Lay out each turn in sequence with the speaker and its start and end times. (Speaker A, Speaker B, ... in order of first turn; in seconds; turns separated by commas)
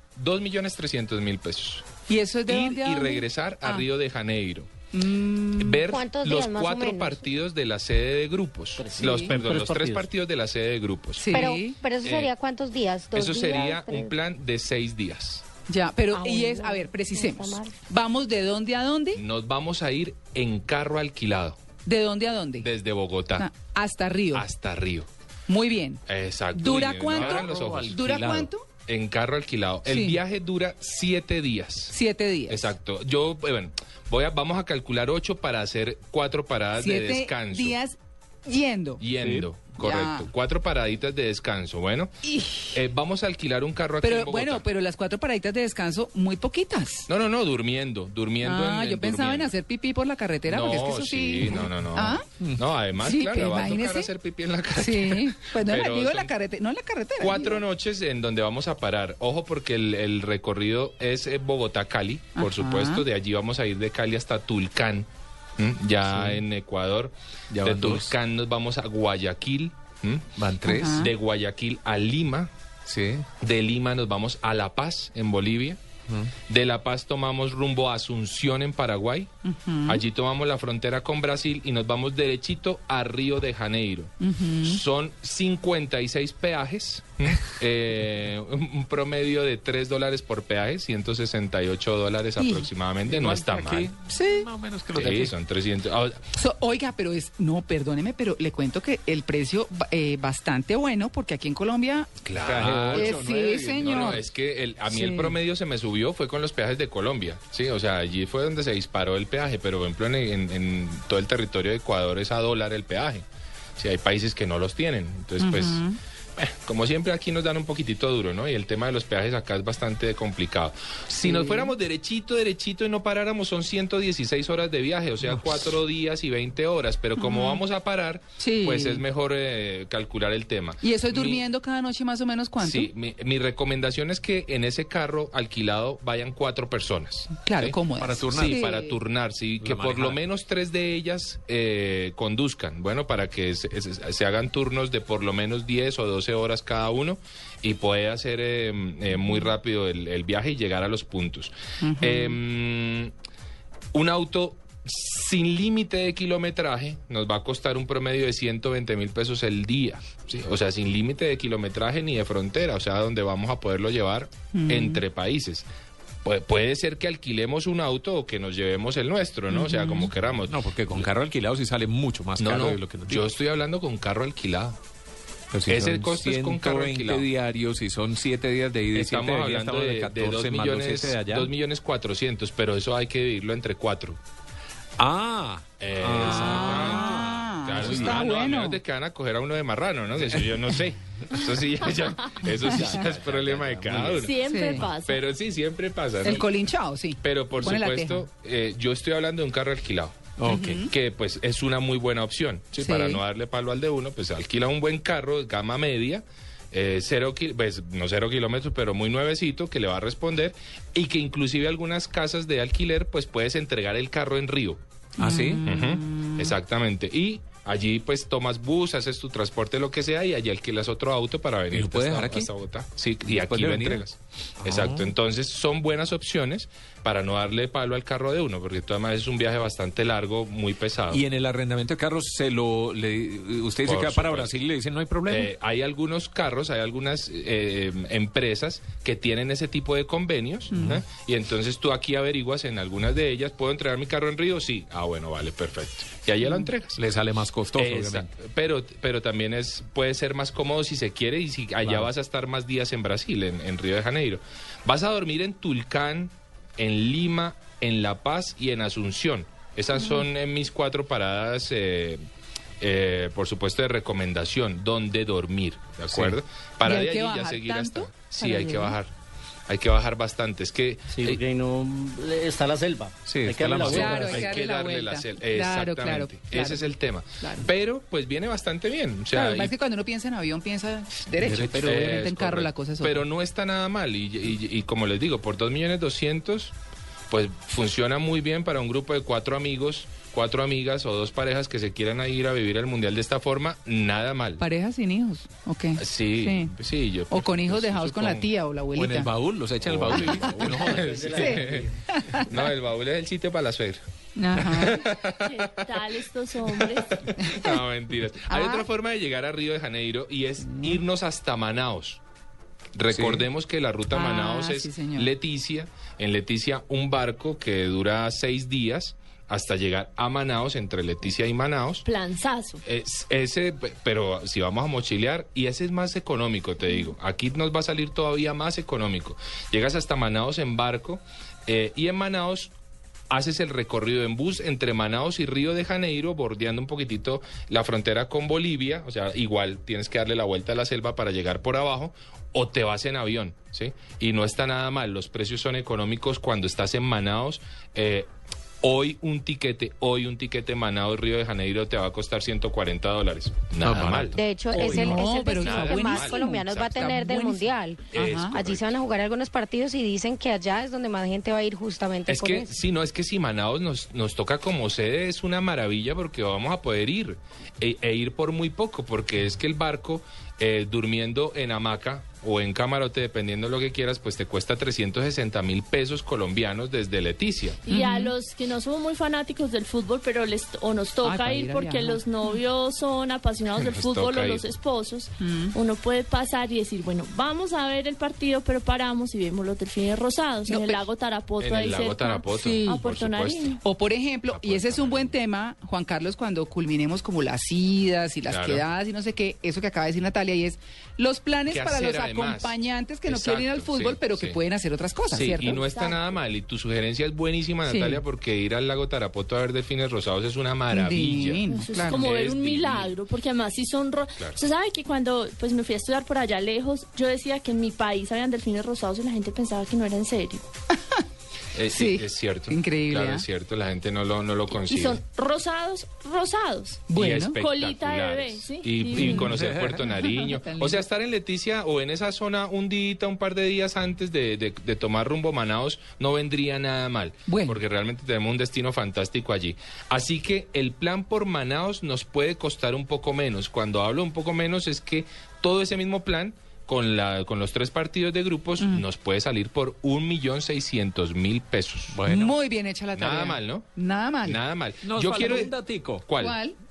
Speaker A: 0.2-1.9, Speaker B: 2.1-3.9, Speaker A: 2.5-4.7, Speaker B: 4.9-5.9, Speaker A: 5.6-11.5, Speaker C: 5.9-7.2, Speaker D: 8.8-10.1, Speaker B: 11.2-11.8, Speaker C: 11.3-14.2, Speaker A: 12.0-12.3, Speaker A: 13.1-15.4, Speaker B: 15.7-19.2, Speaker C: 16.1-17.7, Speaker A: 19.1-21.6, Speaker B: 21.9-22.7, Speaker A: 22.6-23.5, Speaker B: 23.4-24.5, Speaker A: 24.3-25.1, Speaker B: 25.5-26.0, Speaker A: 26.1-32.0, Speaker B: 26.5-28.6, Speaker E: 27.1-28.5, Speaker B: 29.9-30.2, Speaker B: 31.9-32.7, Speaker A: 32.5-37.8, Speaker B: 36.8-39.0, Speaker A: 39.0-44.6, Speaker E: 39.2-39.5, Speaker B: 39.8-40.3, Speaker B: 42.2-42.8, Speaker B: 44.0-47.1, Speaker A: 47.1-49.5, Speaker B: 48.4-52.2, Speaker A: 50.5-56.3, Speaker B: 53.0-54.1, Speaker B: 54.8-57.6, Speaker A: 57.2-70.3, Speaker B: 62.4-63.0, Speaker E: 66.0-66.4, Speaker E: 67.5-68.1, Speaker E: 70.4-71.1, Speaker B: 70.6-71.1, Speaker A: 70.8-72.5, Speaker E: 72.9-73.3, Speaker A: 73.4-75.8, Speaker A: 76.5-79.3, Speaker B: 79.5-80.0, Speaker A: 79.8-93.9, Speaker B: 84.2-84.8, Speaker B: 92.4-92.7, Speaker E: 93.1-95.3, Speaker B: 94.1-94.5, Speaker A: 94.9-96.3, Speaker B: 96.3-102.1, Speaker A: 102.2-103.3, Speaker E: 102.4-104.2, Speaker B: 102.9-104.2, Speaker A: 103.8-113.2, Speaker B: 104.9-105.4, Speaker A: 113.8-115.8, Speaker B: 115.4-116.0, Speaker A: 116.4-131.4, Speaker B: 121.2-121.7, Speaker B: 127.2-127.6, Speaker B: 128.4-129.0, Speaker B: 130.8-132.9, Speaker A: 132.6-153.1, Speaker B: 137.4-139.0, Speaker E: 138.0-138.7, Speaker E: 139.6-140.2, Speaker B: 151.8-152.4, Speaker A: 153.9-165.7, Speaker B: 164.5-165.0, Speaker A: 166.2-170.6, Speaker B: 169.5-170.1, Speaker E: 170.5-173.3, Speaker A: 172.4-174.8, Speaker E: 175.5-181.5, Speaker A: 175.7-177.3, Speaker A: 178.9-184.2, Speaker E: 185.0-188.3, Speaker A: 185.8-196.5, Speaker B: 186.2-188.8, Speaker E: 192.6-194.3, Speaker F: 194.2-195.2, Speaker B: 194.4-194.9, Speaker B: 196.2-198.2, Speaker A: 197.2-214.8, Speaker E: 200.4-200.8, Speaker B: 200.4-200.9, Speaker B: 202.8-203.2, Speaker E: 215.2-215.6, Speaker B: 215.2-216.5, Speaker A: 215.6-231.2, Speaker E: 221.7-222.5, Speaker E: 223.3-224.0, Speaker E: 224.6-225.1, Speaker E: 231.1-235.5, Speaker A: 233.8-234.6, Speaker A: 235.3-247.0, Speaker E: 246.9-248.3, Speaker A: 247.8-262.2, Speaker E: 251.8-252.1, Speaker A: 262.8-269.1, Speaker E: 266.1-266.4, Speaker B: 266.8-268.9, Speaker A: 269.7-271.4, Speaker D: 271.1-274.3, Speaker E: 273.3-274.5, Speaker B: 273.9-276.8, Speaker A: 273.9-279.7, Speaker B: 277.4-277.7, Speaker B: 279.3-283.2, Speaker E: 281.4-281.9, Speaker A: 281.8-286.7, Speaker A: 287.3-294.6, Speaker B: 294.6-296.7, Speaker A: 296.0-298.5, Speaker B: 297.3-299.3, Speaker E: 298.9-301.4, Speaker A: 299.8-301.9, Speaker D: 300.7-301.9, Speaker B: 301.3-302.6, Speaker A: 302.4-304.0, Speaker B: 304.4-305.1, Speaker A: 304.5-305.9, Speaker F: 305.4-307.2, Speaker A: 306.7-312.2, Speaker B: 307.4-307.8, Speaker B: 308.5-308.9, Speaker B: 310.7-311.0, Speaker A: 313.0-322.1, Speaker E: 313.1-313.5, Speaker B: 314.1-315.3, Speaker F: 322.1-322.8, Speaker A: 322.9-332.7, Speaker A: 333.3-348.3, Speaker A: 348.8-357.2, Speaker E: 353.8-354.4, Speaker C: 354.3-362.7, Speaker B: 354.7-358.6, Speaker A: 358.1-358.9, Speaker A: 362.3-377.8, Speaker F: 377.9-393.8, Speaker B: 377.9-378.3, Speaker B: 381.2-382.6, Speaker A: 383.7-384.7, Speaker B: 385.4-385.8, Speaker B: 390.7-391.0, Speaker A: 391.6-393.8, Speaker B: 392.5-393.0, Speaker B: 393.8-405.9, Speaker A: 394.5-395.4, Speaker A: 398.5-398.8, Speaker A: 401.7-404.6, Speaker A: 405.3-413.2, Speaker F: 405.5-406.3, Speaker B: 407.9-408.2, Speaker B: 410.9-412.2, Speaker F: 411.7-420.6, Speaker A: 421.7-425.2, Speaker B: 421.9-423.4, Speaker F: 424.7-427.1, Speaker B: 427.1-427.6, Speaker A: 427.1-452.2, Speaker F: 427.6-429.5, Speaker B: 429.2-429.5, Speaker E: 429.3-430.1, Speaker B: 430.2-431.0, Speaker B: 437.5-437.8, Speaker B: 448.8-449.1, Speaker E: 452.1-452.6, Speaker B: 452.2-454.6, Speaker A: 453.1-453.9, Speaker A: 454.4-455.7, Speaker E: 455.0-456.3, Speaker A: 456.2-456.6, Speaker B: 456.4-456.8